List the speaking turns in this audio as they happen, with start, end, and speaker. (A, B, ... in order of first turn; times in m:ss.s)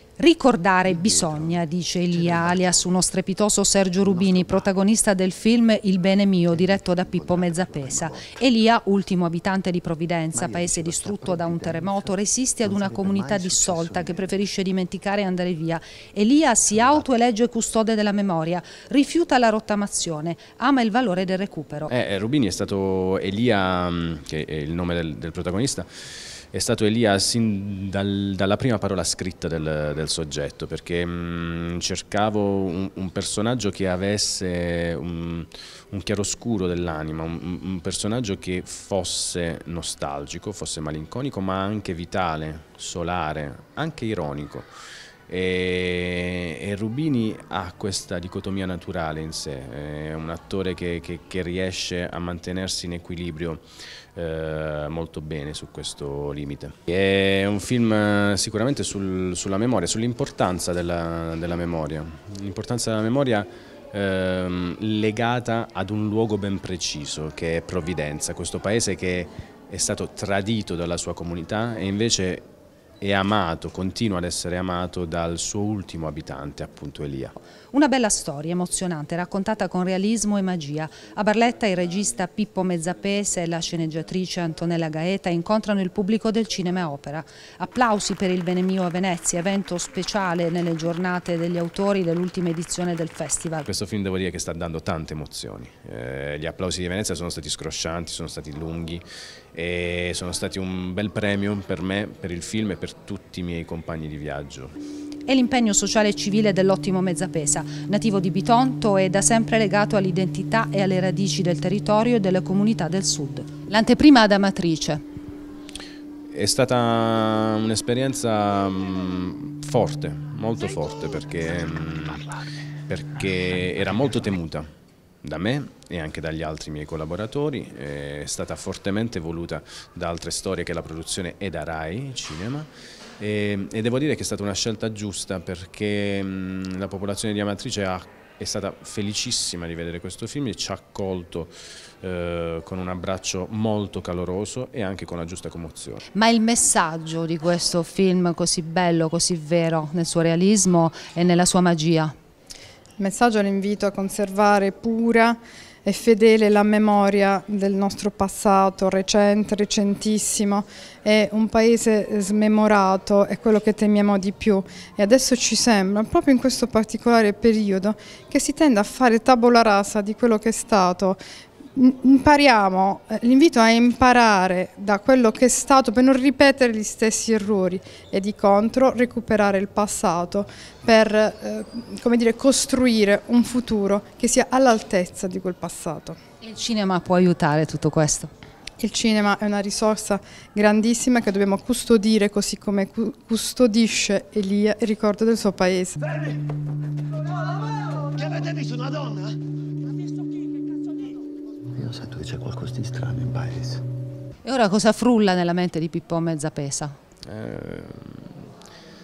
0:00.2-0:21.9 A
0:00.9-0:01.6 B
0:02.1-0:02.9 B
0:04.0-0:04.7 B
0:06.5-0:08.3 B
0:10.3-0:14.3 B
0:16.7-0:17.1 B
0:21.9-0:44.7 C
0:45.3-0:53.6 C
0:54.1-1:12.4 C
1:13.0-1:17.3 C
1:17.7-1:33.7 A
1:33.6-1:44.7 C
1:45.3-1:55.0 A
1:56.3-2:04.7 C
2:05.2-2:26.0 C
2:26.1-2:32.1 A
2:33.0-2:51.2 D
2:51.8-3:06.2 D
3:06.4-3:08.3 A
3:08.8-3:16.3 D
3:21.7-3:23.8 B
3:24.4-3:27.0 A
3:27.2-3:28.5 C